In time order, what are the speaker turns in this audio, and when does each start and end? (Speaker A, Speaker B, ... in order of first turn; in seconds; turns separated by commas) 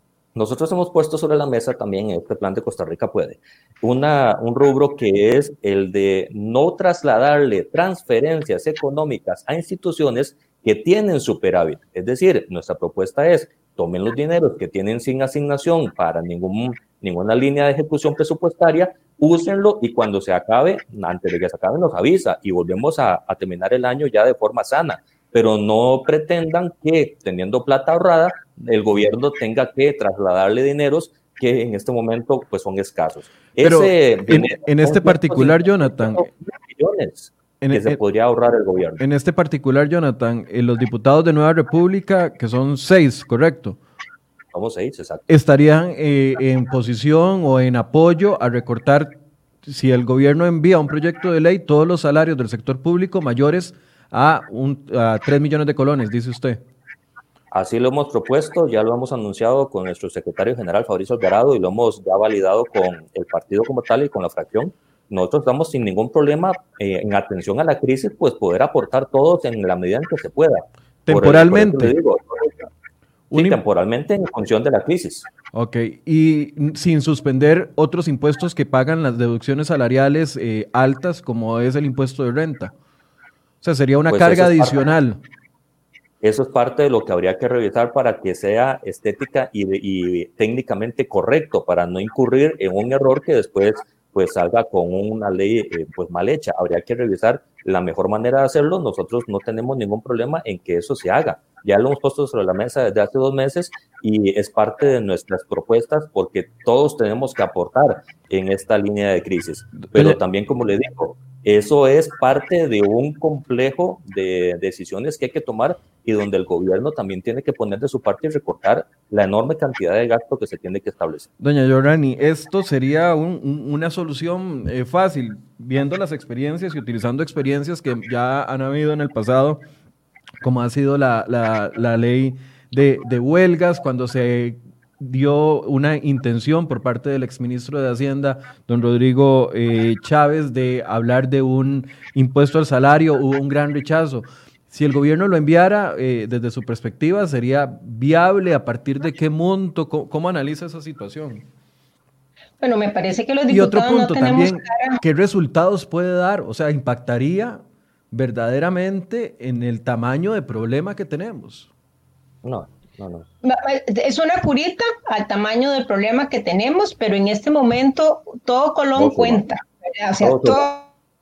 Speaker A: 0.3-39.0, Speaker B: 33.6-36.2, Speaker B: 37.6-38.0, Speaker B: 39.0-43.8, Speaker A: 44.5-45.3, Speaker B: 45.3-49.1, Speaker B: 49.6-56.6, Speaker A: 57.5-72.7, Speaker B: 71.0-71.9, Speaker B: 73.3-73.6, Speaker A: 73.3-75.3, Speaker B: 75.5-82.7, Speaker B: 83.6-85.2, Speaker A: 84.1-84.8, Speaker A: 86.2-121.3, Speaker B: 109.9-110.2, Speaker B: 121.4-129.6, Speaker B: 130.4-151.4, Speaker C: 152.6-155.0, Speaker B: 153.5-157.6, Speaker B: 158.1-161.7, Speaker A: 162.4-163.2, Speaker C: 163.4-170.9, Speaker A: 168.9-169.4, Speaker A: 170.2-170.6